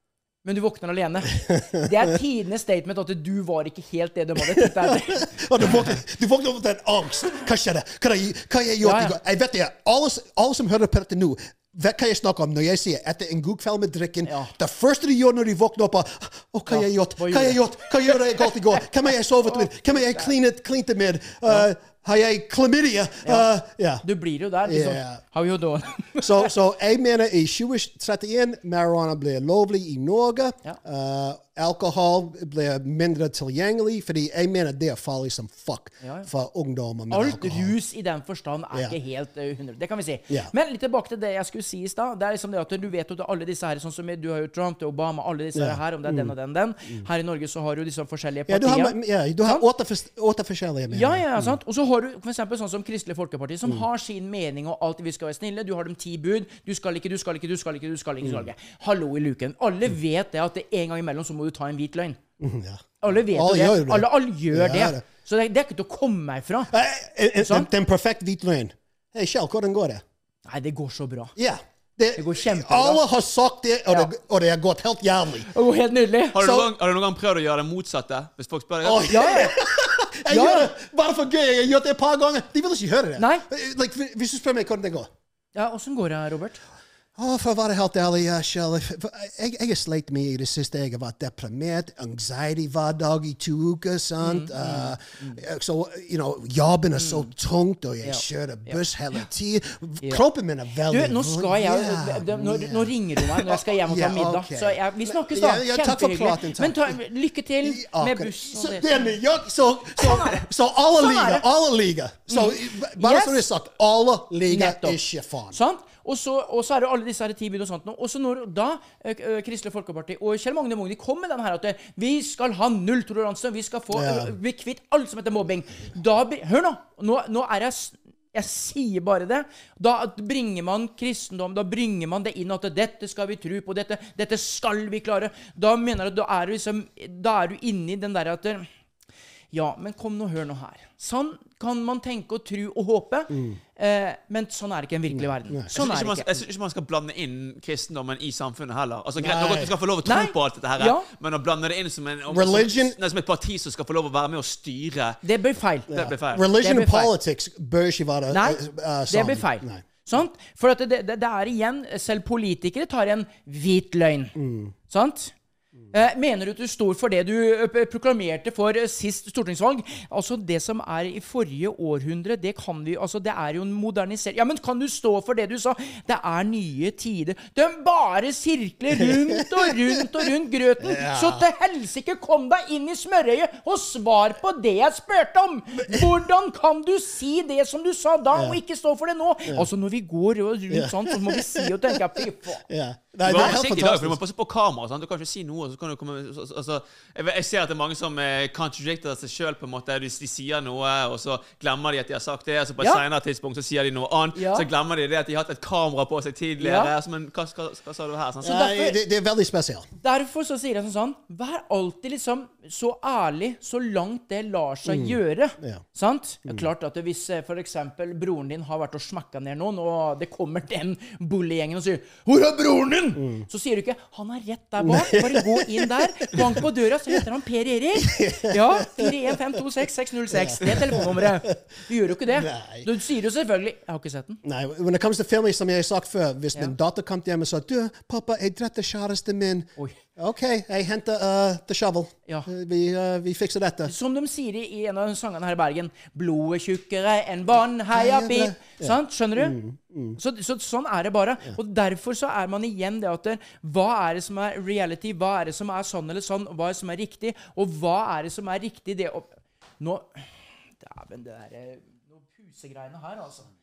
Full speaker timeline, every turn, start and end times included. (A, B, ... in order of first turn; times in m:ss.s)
0:00.4-0:05.8 A
0:01.4-0:02.0 B
0:04.4-0:24.0 B
0:08.8-0:09.2 A
0:14.2-0:14.5 A
0:16.7-0:18.5 A
0:19.4-0:20.3 A
0:24.0-0:26.5 A
0:24.6-0:25.2 B
0:26.2-0:37.8 B
0:36.0-0:36.3 A
0:37.1-0:49.6 A
0:45.5-0:46.3 B
0:48.5-0:51.6 B
0:50.9-1:02.2 A
0:58.2-0:58.5 B
1:02.4-1:05.0 B
1:03.0-1:06.7 A
1:06.7-1:10.0 B
1:07.4-1:07.7 A
1:10.4-1:11.3 A
1:11.4-1:15.5 B
1:12.2-1:13.0 A
1:15.5-1:16.4 A
1:16.3-1:19.4 C
1:16.4-1:16.7 B
1:18.8-1:25.1 B
1:19.1-1:19.5 A
1:20.2-1:20.7 A
1:23.2-1:23.4 A
1:25.5-1:26.6 A
1:27.2-1:47.0 B
1:34.2-1:35.4 A
1:37.0-1:37.2 A
1:38.0-1:38.8 A
1:40.9-1:49.1 A
1:47.6-1:55.6 B
1:50.0-1:51.4 A
1:52.3-1:53.4 A
1:54.5-1:55.0 A
1:55.5-2:18.7 A
2:03.9-2:04.3 B
2:19.5-2:26.3 A
2:23.3-2:23.6 B
2:25.1-2:25.7 B
2:25.7-2:35.2 C
2:29.2-2:29.7 B
2:30.0-2:31.1 A
2:32.3-2:33.0 B
2:35.2-2:35.9 A
2:35.9-2:36.4 C
2:35.9-2:39.8 B
2:36.5-2:37.1 A
2:38.3-2:44.4 A
2:44.4-2:44.7 B
2:44.9-2:45.3 A
2:45.9-3:12.6 A
2:59.0-3:00.2 B
3:00.8-3:01.4 B
3:05.8-3:06.1 B
3:08.3-3:08.6 B
3:10.7-3:12.1 B
3:12.7-3:14.2 B
3:13.2-3:28.6 C
3:22.8-3:23.0 A
3:24.3-3:24.7 A
3:26.6-3:26.9 A
3:28.4-3:29.9 B
3:28.4-3:29.0 A
3:30.0-3:54.4 A
3:34.8-3:35.8 B
3:43.2-3:43.4 B
3:44.8-3:47.2 B
3:48.0-3:49.6 B
3:50.3-3:52.9 B
3:54.4-4:03.9 B
4:03.8-4:09.6 A
4:07.9-4:10.2 B
4:10.2-4:19.3 A
4:19.8-4:23.5 A